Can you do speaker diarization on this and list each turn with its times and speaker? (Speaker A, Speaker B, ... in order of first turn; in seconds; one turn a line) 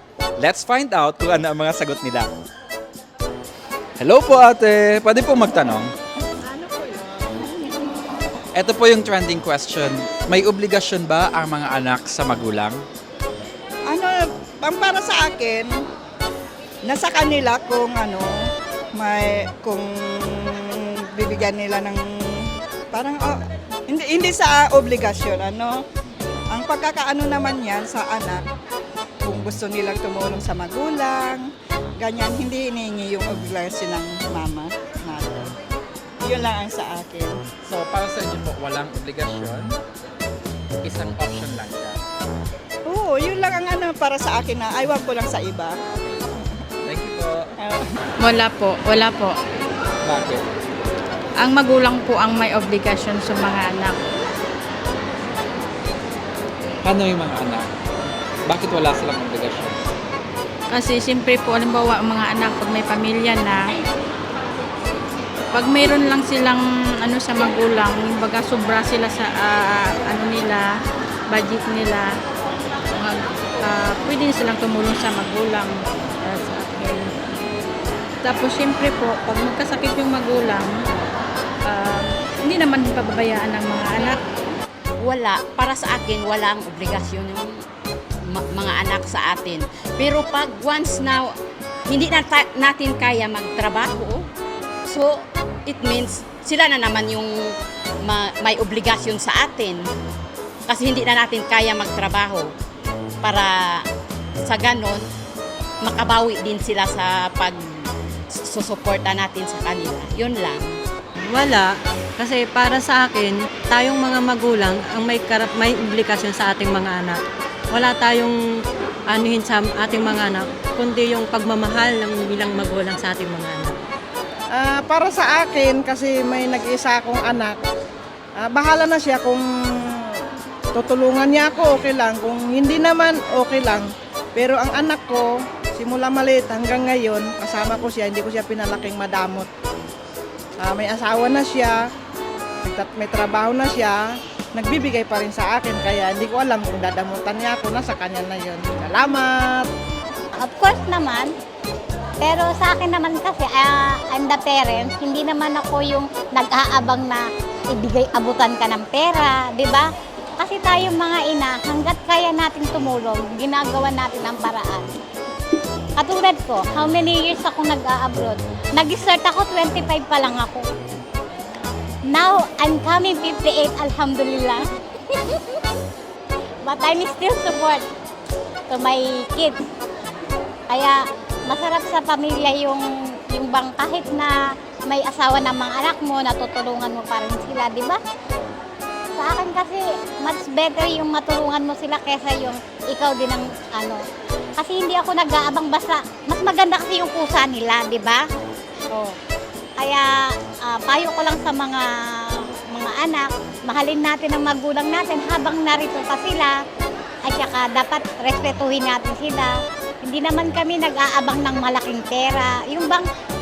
Speaker A: 0.4-2.3
Speaker A: 4.0-5.9
Speaker A: 8.5-12.8
Speaker B: 13.9-15.7
Speaker B: 16.9-18.3
Speaker B: 18.9-25.8
Speaker B: 26.5-28.4
Speaker B: 29.2-31.5
Speaker B: 32.0-35.5
Speaker B: 36.2-37.4
Speaker A: 37.6-39.8
Speaker A: 40.8-42.0
Speaker B: 42.9-45.8
Speaker A: 46.8-47.5
Speaker B: 47.6-47.8
Speaker C: 48.2-49.4
Speaker A: 50.0-50.4
Speaker C: 51.4-54.0
Speaker A: 56.8-57.7
Speaker A: 58.5-59.8
Speaker C: 60.7-63.7
Speaker C: 65.5-70.7
Speaker C: 71.3-72.1
Speaker C: 73.0-77.1
Speaker C: 78.2-80.8
Speaker C: 81.7-84.2
Speaker D: 85.0-87.6
Speaker D: 88.3-91.3
Speaker D: 91.9-94.2
Speaker D: 94.8-97.5
Speaker D: 98.0-99.8
Speaker D: 100.7-102.5
Speaker D: 103.2-103.8
Speaker D: 104.4-105.0
Speaker D: 105.8-107.6
Speaker D: 108.4-110.7
Speaker E: 111.2-118.4
Speaker E: 119.1-123.8
Speaker F: 124.5-127.5
Speaker F: 128.4-130.1
Speaker F: 130.7-139.5
Speaker F: 140.6-141.7
Speaker F: 142.6-144.0
Speaker F: 144.5-149.7
Speaker G: 150.4-151.3
Speaker G: 152.2-159.9
Speaker G: 160.4-164.8
Speaker G: 166.0-170.6
Speaker G: 172.1-174.6
Speaker G: 176.6-177.8
Speaker G: 178.7-179.6
Speaker G: 180.7-188.0
Speaker G: 189.2-194.0
Speaker G: 194.6-198.2
Speaker G: 199.8-200.1
Speaker G: 200.6-206.6
Speaker G: 207.2-213.1